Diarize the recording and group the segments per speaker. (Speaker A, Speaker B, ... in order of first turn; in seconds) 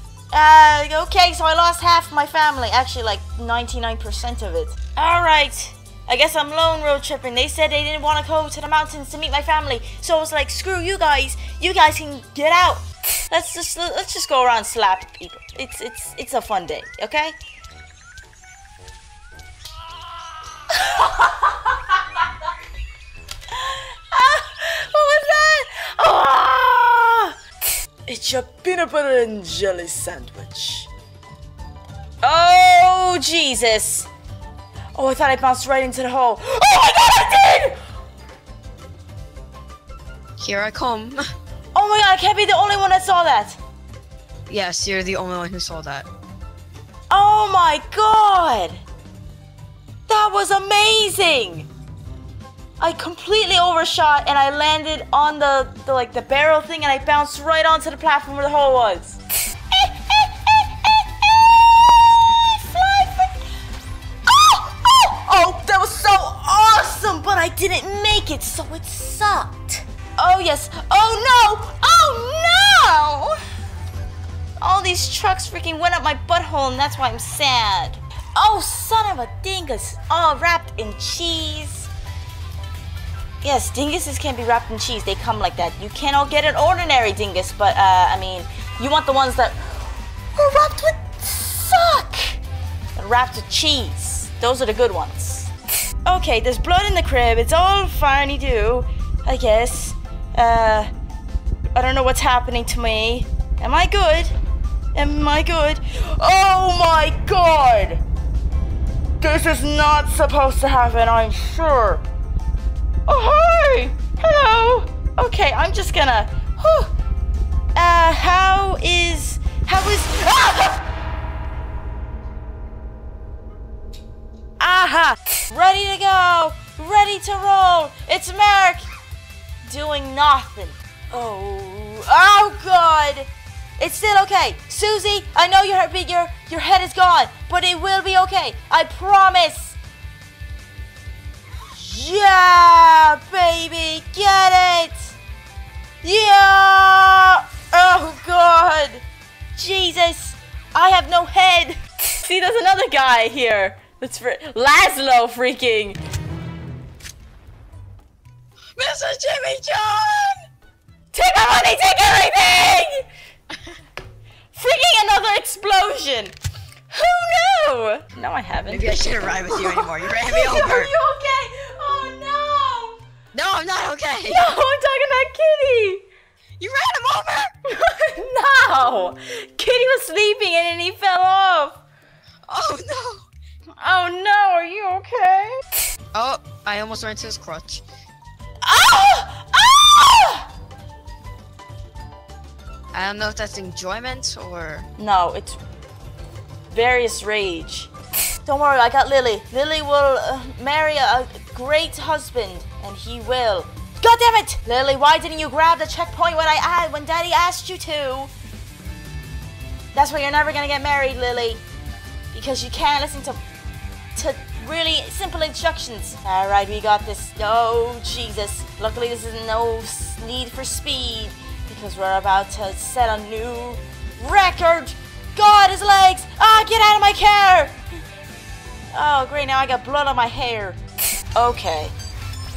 Speaker A: 0.3-17.3, 20.7-21.8, 23.5-27.3, 28.1-30.9, 32.2-34.1, 34.9-37.8, 41.7-43.6, 47.1-48.8, 50.1-51.7, 52.8-59.2, 59.7-63.4, 64.2-73.3, 74.6-81.9, 83.4-92.4, 93.0-95.5, 96.0-100.9, 101.7-104.3, 104.9-108.0, 109.2-112.0, 113.1-116.9, 117.7-120.8, 124.6-128.9, 129.6-139.8, 141.7-145.2, 146.0-149.0, 149.5-156.0, 161.1-163.0, 164.5-166.3, 166.9-168.9, 169.5-173.0, 174.3-176.0, 177.7-181.8, 183.8-185.6, 188.6-190.5, 195.0-195.6, 196.7-197.9, 198.4-208.3, 209.9-211.6, 212.3-213.4, 214.1-227.8, 228.9-230.8, 231.3-231.9
Speaker B: 40.4-41.2, 44.5-46.1, 158.8-160.4, 168.6-170.9, 173.3-174.5, 176.6-177.5, 182.5-183.2, 186.1-187.8, 192.9-194.9